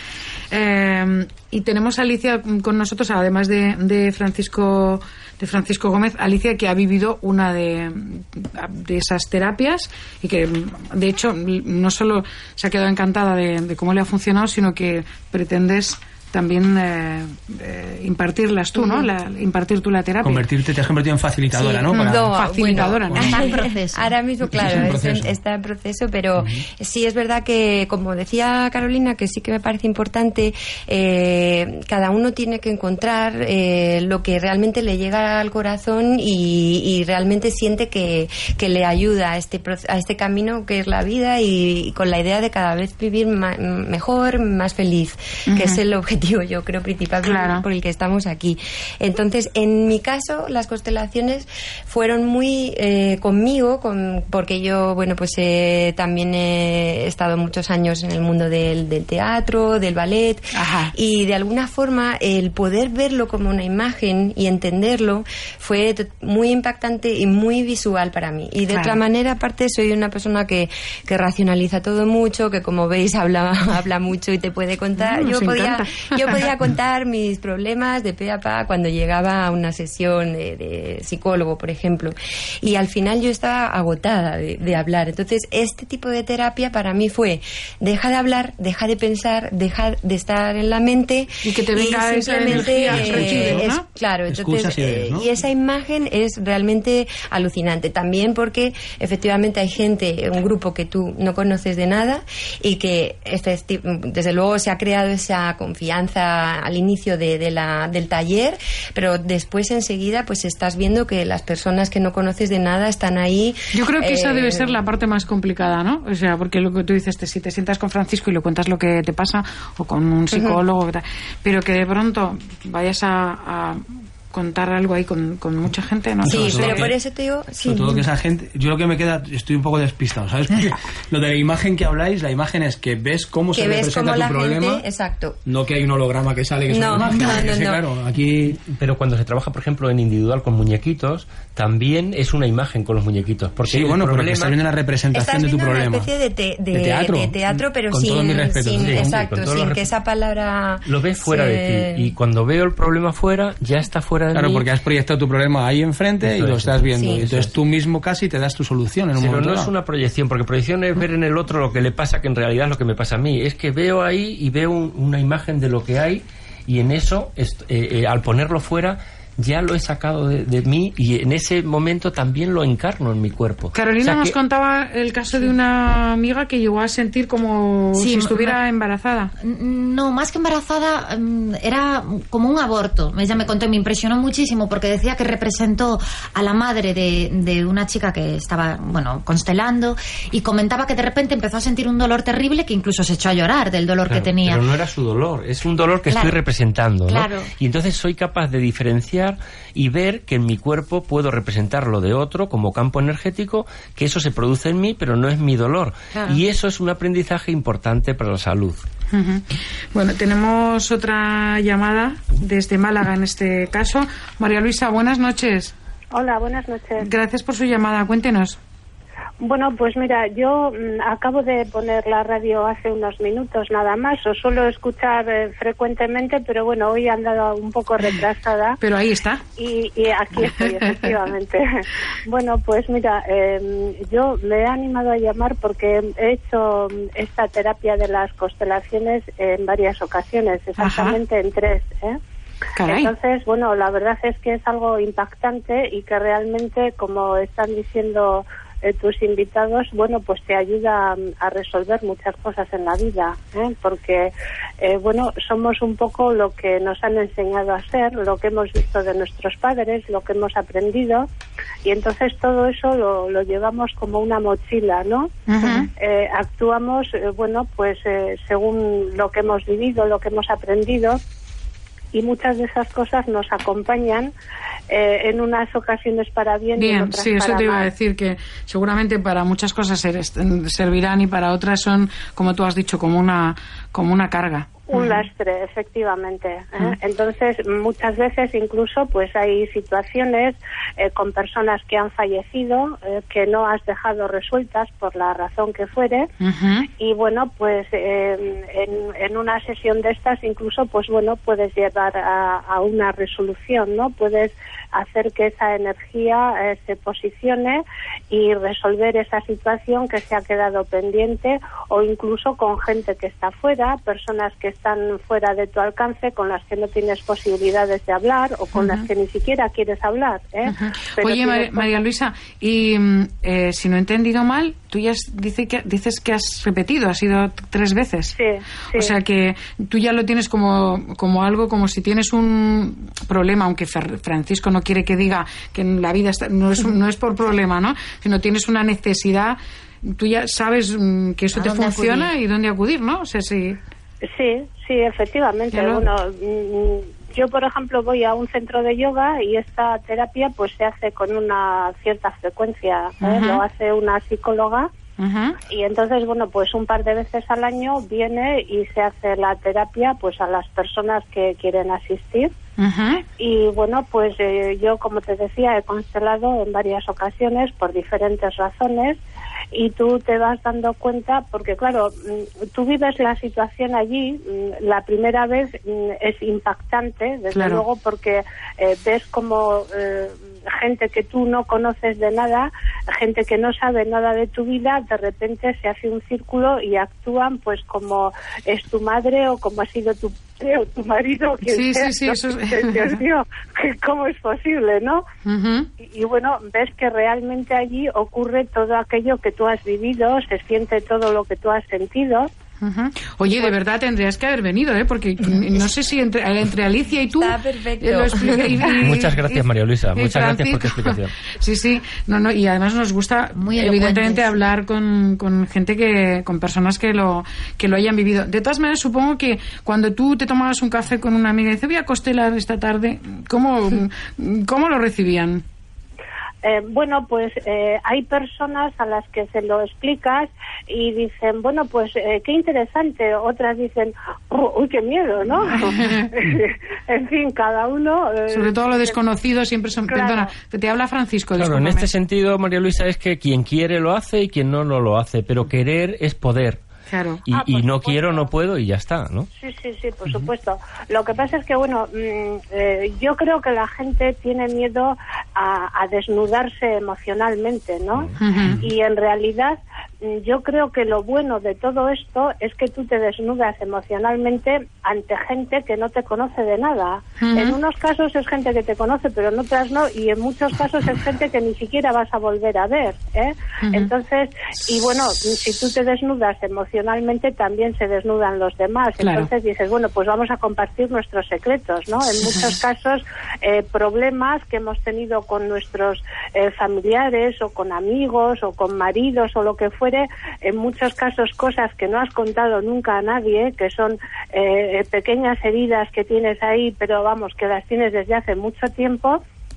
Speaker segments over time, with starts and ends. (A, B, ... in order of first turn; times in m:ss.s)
0:00.5-0:20.5 A
0:18.8-0:19.1 B
0:20.2-0:23.2 C
0:21.5-1:54.8 B
0:21.9-0:23.5 A
0:23.1-0:24.1 D
0:24.5-0:25.3 C
0:45.5-0:45.8 A
0:47.2-0:47.6 A
1:00.5-1:00.9 A
1:08.7-1:09.0 A
1:15.0-1:16.4 A
1:31.4-1:33.8 A
1:32.5-1:33.7 C
1:34.3-1:35.3 C
1:53.7-2:06.9 A
2:00.3-2:00.6 B
2:06.2-2:06.9 C
2:06.3-2:08.1 B
2:07.6-2:14.8 C
2:13.5-2:15.4 B
2:15.5-2:18.6 C
2:16.7-2:17.8 B
2:18.6-2:24.6 E
2:23.7-2:26.1 C
2:25.1-2:32.1 B
2:26.7-2:29.2 C
2:28.8-2:29.8 E
2:30.9-2:34.7 E
2:34.3-2:39.7 C
2:36.2-2:37.5 E
2:36.9-2:37.2 B
2:39.2-2:54.4 E
2:53.7-2:59.3 A
2:58.0-2:58.6 D
2:59.4-3:14.6 D
3:14.1-3:28.8 E
3:16.1-3:16.4 D
3:17.1-3:17.5 D
3:26.1-3:26.4 D
3:29.1-3:35.7 A
3:36.1-3:37.1 F
3:37.0-3:38.6 A
3:39.4-3:48.8 F
3:48.8-3:49.4 A
3:49.6-4:02.2 F
3:50.4-3:51.2 A
4:00.8-4:01.2 A
4:02.8-4:03.1 A
4:02.8-4:21.3 F
4:21.8-4:31.2 F
4:25.5-4:25.9 A
4:32.1-4:34.3 F
4:34.9-4:37.9 F
4:36.8-4:45.2 A
4:44.9-4:56.3 F
4:56.4-4:56.9 A
4:56.9-5:22.0 F
5:18.8-5:19.1 A
5:20.7-5:28.3 A
5:28.4-5:29.2 F
5:29.0-5:43.8 A
5:41.5-5:42.3 D
5:44.2-5:54.9 F
5:45.7-5:46.0 A
5:53.2-5:53.6 A
5:55.2-5:55.6 A
5:55.7-6:02.5 F
6:02.8-6:03.2 A
6:03.4-6:09.2 F
6:09.7-6:12.1 F
6:12.7-6:35.2 F
6:17.5-6:17.8 A
6:31.7-6:33.2 A
6:35.4-6:35.9 A
6:36.0-6:42.5 F
6:42.8-6:49.6 A
6:43.5-6:43.8 F
6:47.3-6:49.0 B
6:49.0-6:51.3 E
6:50.2-7:05.6 A
6:53.6-6:54.5 D
7:06.6-7:19.2 F
7:15.8-7:16.3 A
7:18.5-7:22.1 A
7:20.1-7:20.5 F
7:21.6-7:26.8 E
7:27.1-7:27.4 A
7:27.5-7:29.5 E
7:27.5-7:28.5 F
7:29.6-8:19.4 F
7:38.4-7:38.8 A
7:47.4-7:47.8 A
7:53.8-7:54.1 A
7:59.2-7:59.5 A